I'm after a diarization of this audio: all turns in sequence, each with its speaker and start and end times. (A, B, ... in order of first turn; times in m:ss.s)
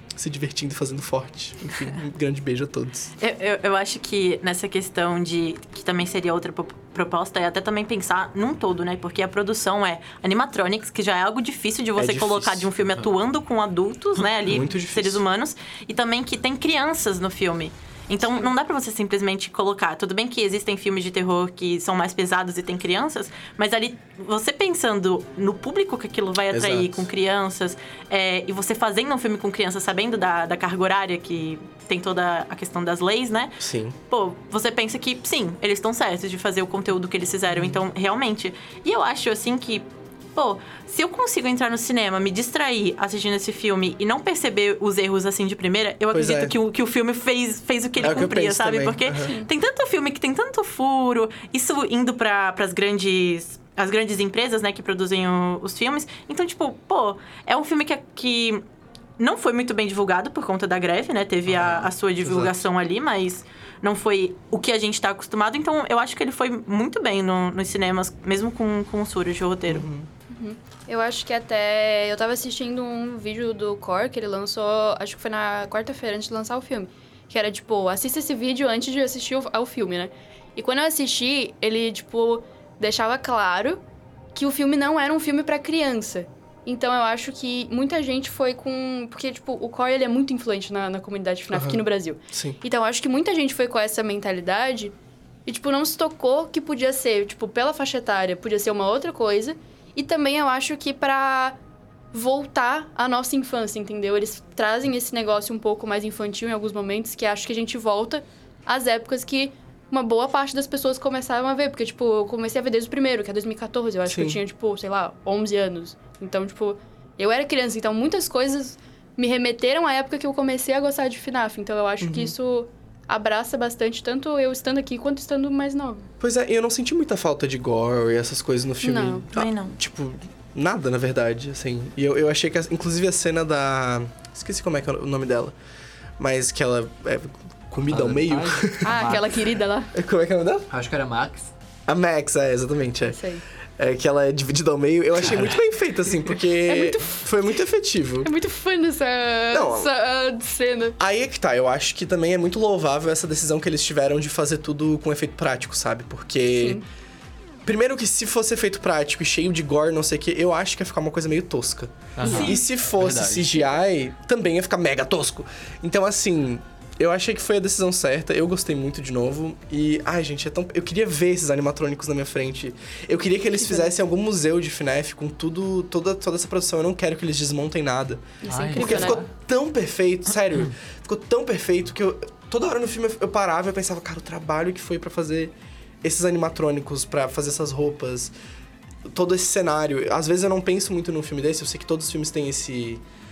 0:00.2-0:03.1 A
0:03.2-0:58.6 B
0:12.0-0:12.7 A
0:14.4-0:15.2 A
0:18.2-0:18.5 C
0:26.5-0:27.1 A
0:33.6-0:34.0 A
0:37.5-0:37.8 A
0:46.1-0:46.6 A
0:48.0-0:49.3 A
0:49.2-0:49.5 C
0:59.2-1:09.9 B
1:01.5-1:02.7 A
1:09.7-1:10.1 A
1:10.3-1:23.8 C
1:24.3-1:34.9 C
1:31.5-1:32.6 A
1:35.5-1:41.6 C
1:42.1-2:06.1 C
1:54.1-1:54.4 A
2:02.0-2:02.3 A
2:06.2-2:15.6 A
2:08.8-2:09.3 C
2:09.3-2:09.8 B
2:16.2-2:19.3 A
2:17.9-2:19.5 D
2:18.8-2:19.9 C
2:19.9-2:20.7 A
2:20.7-2:21.5 D
2:21.9-2:23.2 A
2:23.1-2:23.4 C
2:23.8-2:28.3 A
2:25.3-2:25.5 D
2:26.7-2:27.2 C
2:28.2-2:31.0 C
2:29.5-2:29.9 A
2:31.0-2:36.8 A
2:36.5-2:36.8 C
2:37.6-3:08.3 A
2:42.2-2:43.7 D
2:42.2-2:42.6 B
2:58.4-2:59.2 C
2:58.5-2:59.3 D
3:09.1-3:13.0 A